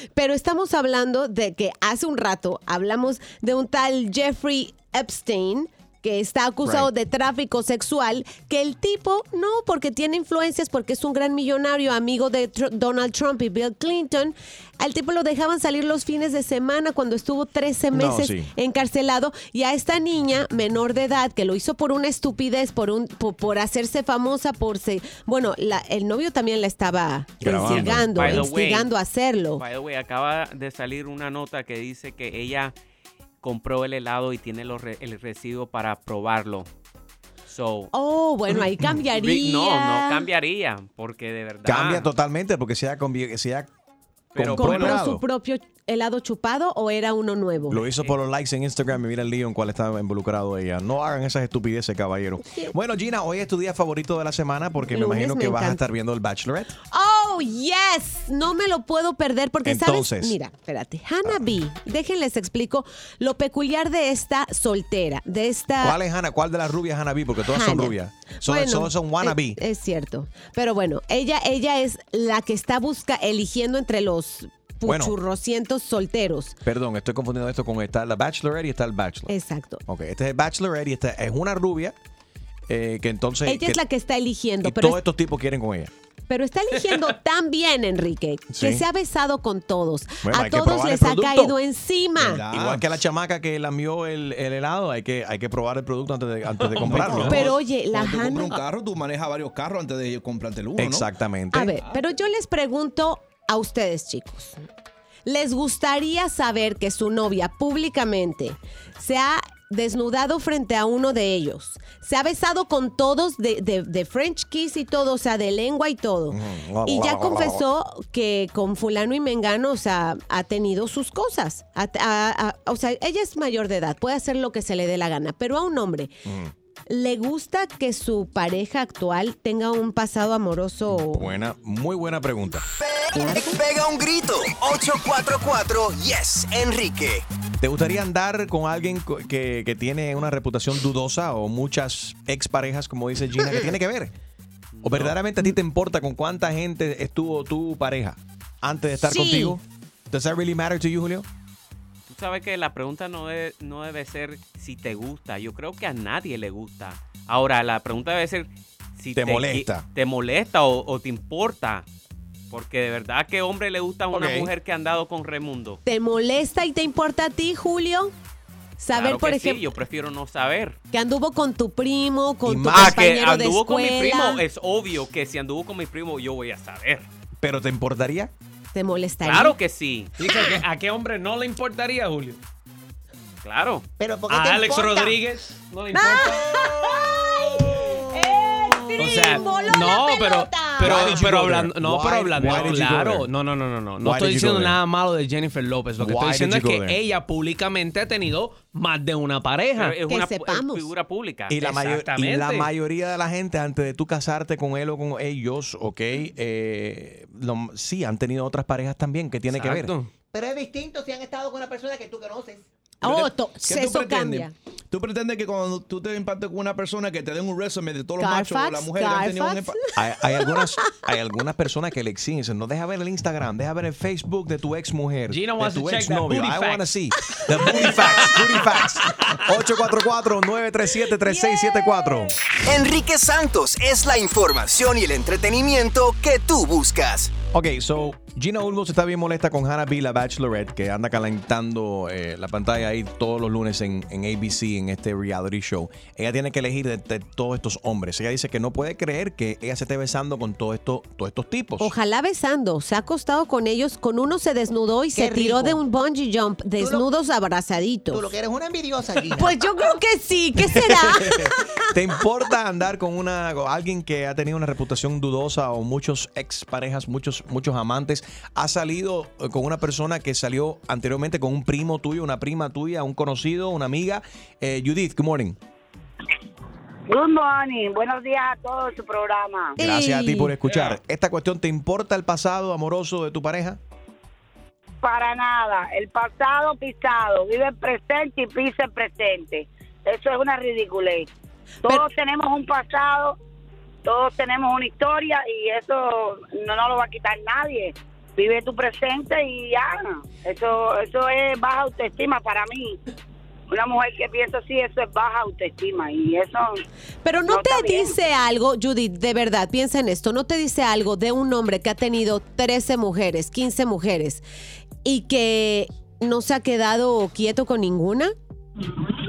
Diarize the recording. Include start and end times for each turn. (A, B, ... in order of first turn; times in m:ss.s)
0:00.1-0:29.6 A
0:06.6-0:06.9 B
0:17.9-0:18.5 B
0:27.4-0:28.4 B
0:27.6-0:28.9 C
0:29.6-0:32.7 C
0:33.4-0:36.7 C
0:37.5-0:37.9 C
0:37.9-0:40.3 A
0:39.1-0:42.1 C
0:41.6-0:43.7 B
0:44.3-0:45.2 B
0:44.4-0:45.0 D
0:44.6-0:47.8 A
0:47.7-0:56.7 B
0:54.9-0:55.8 A
0:56.9-1:06.0 A
0:59.6-1:00.4 B
1:05.8-1:09.6 B
1:07.5-1:16.6 A
1:14.8-1:15.2 B
1:16.6-1:19.3 B
1:19.3-1:19.8 A
1:19.9-1:22.0 B
1:22.7-1:23.8 B
1:23.5-1:25.0 A
1:24.6-1:25.9 B
1:26.3-1:32.4 A
1:28.5-1:28.8 B
1:30.2-1:31.6 B
1:32.2-1:32.8 D
1:32.5-1:37.5 B
1:36.6-1:37.3 E
1:36.8-1:41.1 D
1:37.2-1:38.6 A
1:40.8-1:41.8 B
1:41.5-1:44.6 A
1:45.2-2:06.1 A
1:56.3-1:57.6 B
2:06.2-2:06.5 B
2:06.9-2:11.2 A
2:10.9-2:12.6 B
2:13.2-2:17.2 F
2:13.2-2:13.6 A
2:17.6-2:24.1 B
2:24.7-2:25.2 C
2:24.8-2:31.2 B
2:29.0-2:29.6 A
2:32.1-2:41.8 C
2:39.1-2:39.8 B
2:42.5-2:45.8 C
2:44.1-2:44.5 B
2:45.8-2:48.1 A
2:48.8-2:49.7 A
2:48.9-2:50.8 C
2:50.9-2:54.4 A
2:52.4-2:53.0 B
2:52.7-2:57.1 C
2:57.4-2:58.3 B
2:58.7-2:59.6 A
2:59.2-3:00.1 C
3:00.2-3:02.4 E
3:03.4-3:03.8 C
3:04.0-3:05.2 G
3:04.3-3:07.0 E
3:05.9-3:11.2 A
3:09.0-3:20.0 E
3:10.8-3:13.3 B
3:12.5-3:12.8 C
3:14.0-3:14.8 B
3:16.0-3:17.0 B
3:19.8-3:21.6 C
3:20.0-3:20.9 A
3:21.5-3:29.9 B
3:21.6-3:22.7 E
3:29.5-3:30.1 E
3:30.3-3:32.6 G
3:33.0-3:34.5 A
3:33.0-3:39.8 D
3:38.2-3:39.7 A
3:39.9-3:52.3 B
3:45.3-3:46.9 E
3:47.7-3:49.4 E
3:51.4-3:52.2 A
3:52.6-3:57.3 F
3:57.5-4:11.9 B
4:11.8-4:18.2 A
4:15.1-4:15.8 G
4:16.8-4:17.0 G
4:18.1-4:19.6 G
4:19.3-4:21.5 A
4:21.9-4:35.6 B
4:37.1-4:39.8 H
4:39.8-4:40.5 A
4:39.8-4:43.8 B
4:45.0-4:51.3 H
4:51.8-4:53.4 H
4:54.0-5:03.0 H
5:03.7-5:06.8 H
5:07.2-5:14.4 A
5:07.5-5:08.1 H
5:15.0-5:18.3 A